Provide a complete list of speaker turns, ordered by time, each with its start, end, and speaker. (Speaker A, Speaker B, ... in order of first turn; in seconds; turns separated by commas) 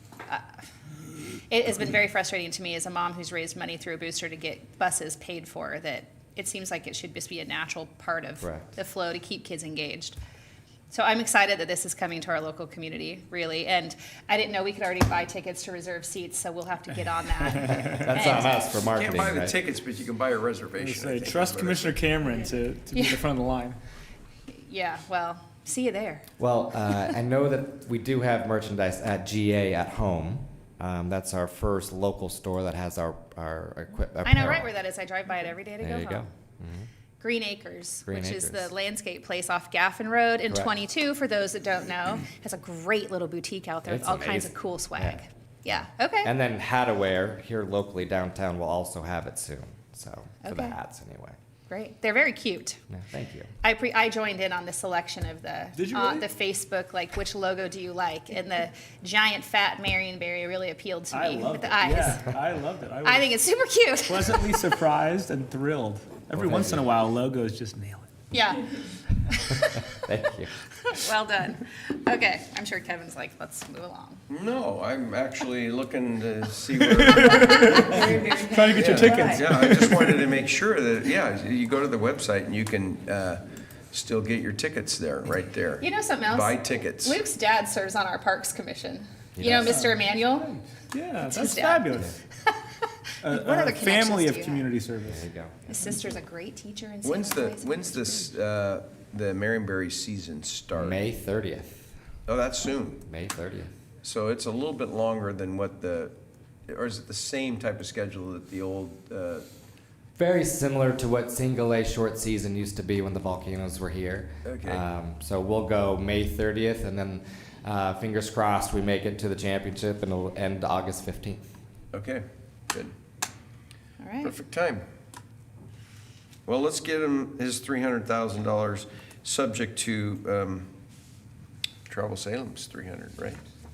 Speaker A: 0.2-0.6, Speaker A: 1.5-10.2, Speaker B: 8.4-8.7, Speaker A: 10.9-18.7, Speaker B: 17.7-19.6, Speaker C: 18.9-22.0, Speaker D: 20.8-23.8, Speaker A: 22.9-23.2, Speaker A: 24.5-26.3, Speaker B: 26.4-34.7, Speaker A: 34.2-36.3, Speaker B: 35.8-36.9, Speaker A: 37.2-46.3, Speaker B: 38.0-38.7, Speaker B: 43.9-45.2, Speaker B: 46.2-51.4, Speaker A: 50.4-50.8, Speaker A: 51.7-52.8, Speaker B: 52.9-53.5, Speaker A: 53.6-62.3, Speaker D: 55.7-56.2, Speaker D: 61.1-63.3, Speaker A: 63.0-64.7, Speaker D: 64.1-68.1, Speaker B: 66.3-66.8, Speaker A: 68.3-68.7, Speaker A: 69.3-69.8, Speaker B: 69.9-70.5, Speaker A: 70.8-74.2, Speaker C: 74.3-78.0, Speaker D: 76.9-80.2, Speaker A: 77.7-79.5, Speaker C: 78.7-87.2, Speaker A: 85.8-90.5, Speaker B: 89.3-89.8, Speaker D: 89.6-92.2, Speaker A: 91.2-92.6, Speaker D: 93.2-95.2, Speaker A: 93.3-94.7, Speaker B: 95.1-95.9, Speaker A: 95.7-97.8, Speaker C: 97.0-101.0, Speaker D: 98.0-98.3, Speaker B: 100.8-101.9, Speaker C: 102.3-103.0, Speaker B: 103.0-103.7, Speaker C: 104.0-106.1, Speaker C: 106.7-109.5, Speaker B: 110.2-121.5, Speaker C: 114.4-114.8, Speaker C: 121.9-122.9, Speaker A: 124.0-124.3, Speaker C: 124.2-124.8, Speaker C: 126.5-130.7, Speaker C: 131.9-133.4